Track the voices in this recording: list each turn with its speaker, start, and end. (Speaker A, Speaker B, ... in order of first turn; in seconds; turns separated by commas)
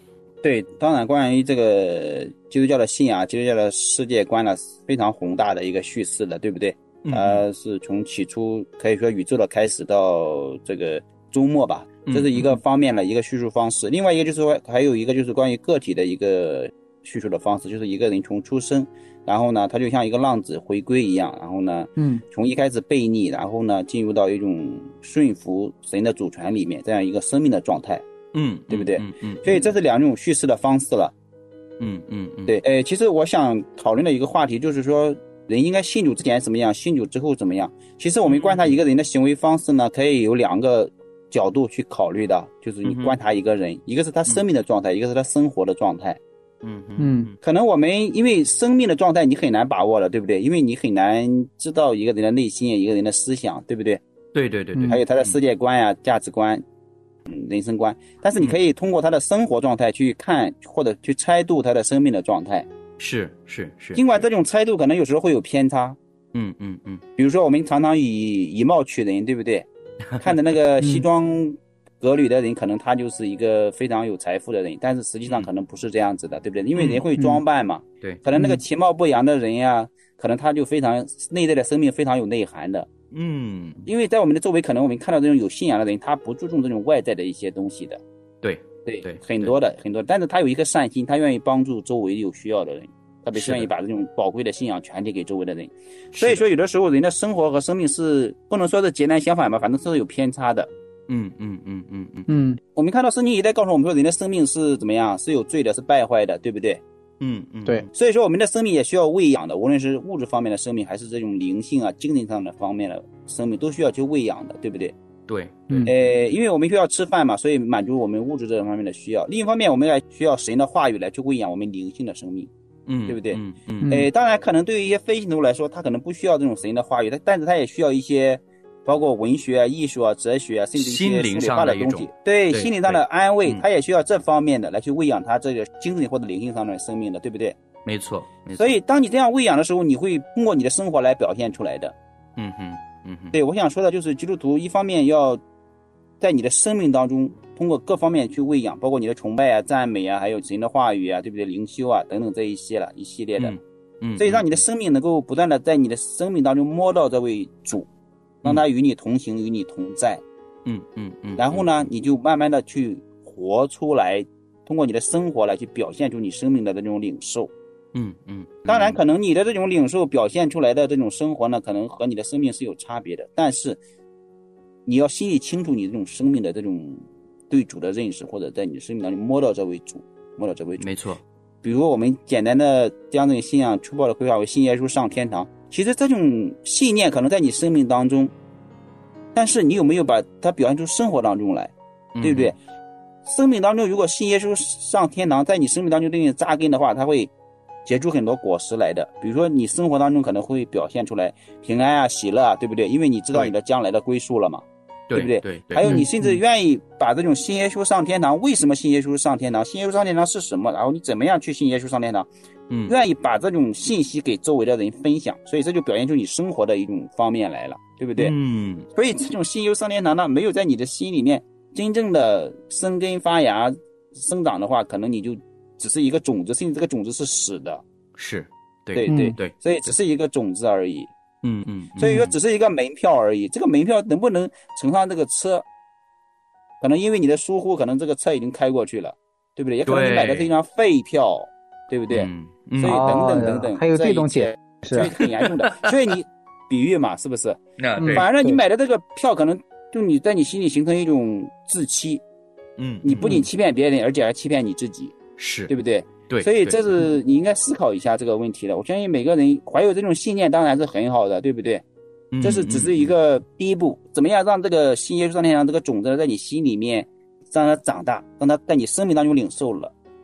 Speaker A: 0.4-28.0, Speaker B: 7.0-7.4, Speaker B: 12.1-12.5, Speaker C: 22.0-22.2, Speaker B: 28.3-29.6, Speaker A: 28.7-31.1, Speaker B: 31.8-32.6, Speaker A: 32.5-46.2, Speaker B: 38.3-38.7, Speaker B: 42.8-43.2, Speaker B: 46.6-47.3, Speaker C: 47.0-47.3, Speaker A: 47.4-54.0, Speaker B: 54.3-55.4, Speaker C: 54.7-55.0, Speaker A: 54.9-56.6, Speaker A: 57.3-62.6, Speaker B: 63.0-64.2, Speaker A: 63.9-66.0, Speaker B: 66.3-67.0, Speaker A: 67.2-69.7, Speaker A: 70.2-82.9, Speaker B: 76.8-77.0, Speaker B: 83.1-83.8, Speaker A: 83.8-88.0, Speaker B: 88.4-89.5, Speaker A: 88.8-100.7, Speaker B: 93.3-93.7, Speaker B: 96.1-96.4, Speaker B: 101.1-102.4, Speaker C: 102.3-102.6, Speaker A: 102.7-106.8, Speaker B: 107.2-107.9, Speaker A: 107.9-114.9, Speaker B: 115.3-115.9, Speaker A: 115.8-122.5, Speaker B: 122.9-124.0, Speaker A: 123.1-137.6, Speaker B: 130.8-133.6, Speaker B: 137.8-138.7, Speaker A: 138.5-141.9, Speaker B: 142.4-143.4, Speaker A: 143.3-145.4, Speaker A: 146.2-153.6, Speaker B: 153.4-154.6, Speaker A: 154.2-157.9, Speaker A: 158.4-160.2, Speaker B: 160.7-161.8, Speaker A: 161.4-167.5, Speaker B: 167.9-169.0, Speaker A: 168.7-173.8, Speaker A: 174.8-180.8, Speaker B: 180.8-181.2, Speaker A: 181.6-188.3, Speaker A: 189.3-192.6, Speaker B: 192.2-192.5, Speaker A: 193.2-197.3, Speaker A: 197.8-212.3, Speaker B: 205.1-205.9, Speaker C: 205.8-206.4, Speaker A: 212.8-218.3, Speaker B: 218.2-218.8, Speaker A: 218.9-227.8, Speaker B: 228.2-229.5, Speaker A: 228.9-231.1, Speaker C: 229.1-229.3, Speaker B: 231.4-232.3, Speaker A: 232.0-235.6, Speaker A: 236.8-252.2, Speaker B: 239.8-240.5, Speaker B: 242.1-243.2, Speaker C: 242.8-245.1, Speaker B: 245.0-245.9, Speaker B: 247.8-248.3, Speaker C: 248.0-248.6, Speaker B: 252.8-253.4, Speaker A: 253.0-255.2, Speaker B: 255.4-255.7, Speaker A: 255.7-261.8, Speaker B: 256.3-256.8, Speaker B: 262.3-263.1, Speaker A: 262.4-269.9